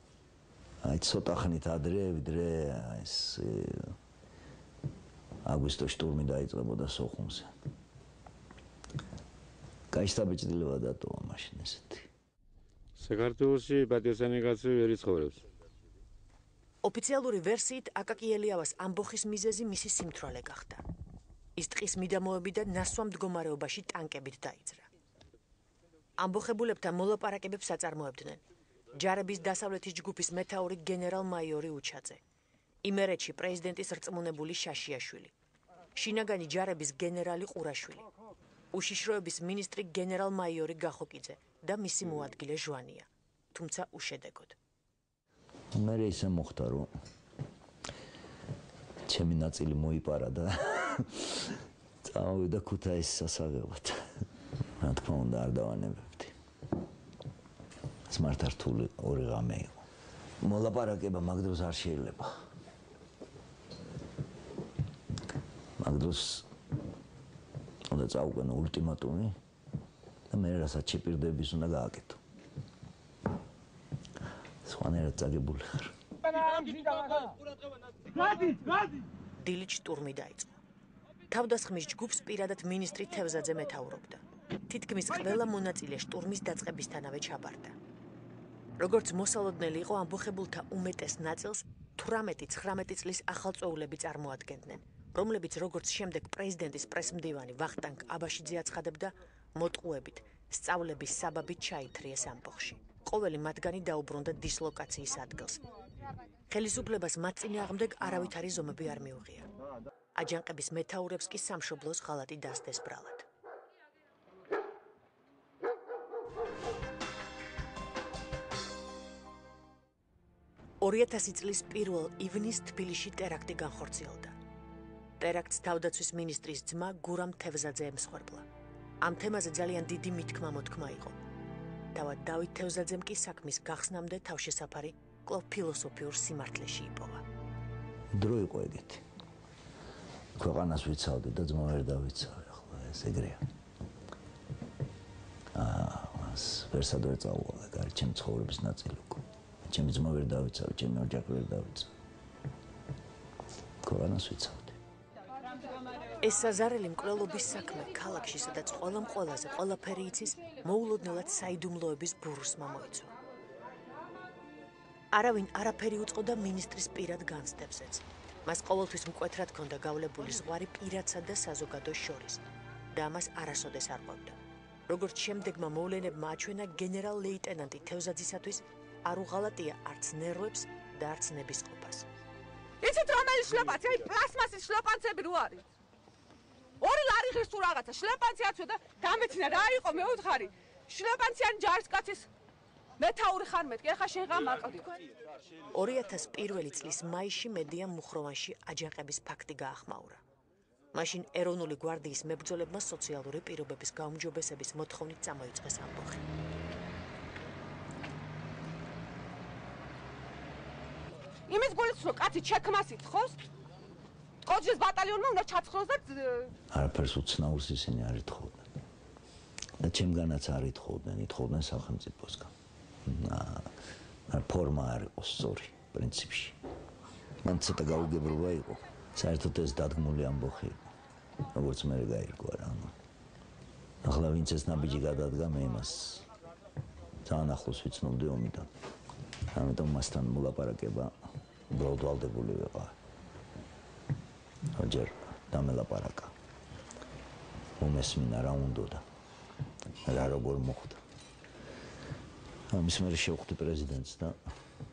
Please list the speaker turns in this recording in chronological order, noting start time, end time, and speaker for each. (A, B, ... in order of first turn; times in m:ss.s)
0:00.8-0:04.0 A
0:05.4-0:07.5 A
0:09.9-0:12.1 A
0:13.0-0:15.4 B
0:16.8-0:20.8 C
0:21.6-0:24.9 C
0:26.2-0:28.4 C
0:29.0-0:32.2 C
0:32.8-0:35.3 C
0:36.0-0:38.1 C
0:38.7-0:44.6 C
0:45.7-0:46.9 A
0:49.1-0:54.2 A
0:54.8-0:56.4 A
0:58.1-0:59.8 A
1:00.4-1:02.4 A
1:05.8-1:06.5 A
1:07.9-1:09.4 A
1:10.3-1:12.2 A
1:14.6-1:16.0 A
1:19.4-1:20.6 C
1:21.3-1:27.8 C
1:28.8-1:45.6 C
1:46.5-1:49.5 C
1:50.2-1:53.3 C
2:00.8-2:04.4 C
2:05.2-2:08.5 C
2:09.0-2:11.2 C
2:12.0-2:17.2 C
2:18.1-2:19.0 A
2:20.4-2:23.4 A
2:25.5-2:31.9 A
2:33.8-2:34.8 A
2:36.2-2:43.1 C
2:45.1-2:54.4 C
2:54.9-3:02.1 C
3:02.8-3:05.6 D
3:06.8-3:12.3 D
3:13.0-3:14.9 D
3:15.8-3:20.2 C
3:20.9-3:26.2 C
3:31.5-3:33.4 D
3:34.4-3:36.5 D
3:36.7-3:38.7 A
3:39.8-3:42.5 A
3:43.0-3:43.7 A
3:44.3-3:46.6 A
3:47.4-3:50.9 A
3:51.5-3:53.0 A
3:54.0-3:56.3 A
3:57.2-3:58.7 A
3:59.5-4:01.2 A
4:01.7-4:03.0 A
4:04.7-4:06.3 A
4:07.8-4:09.0 A
4:10.1-4:11.0 A
4:12.7-4:14.4 A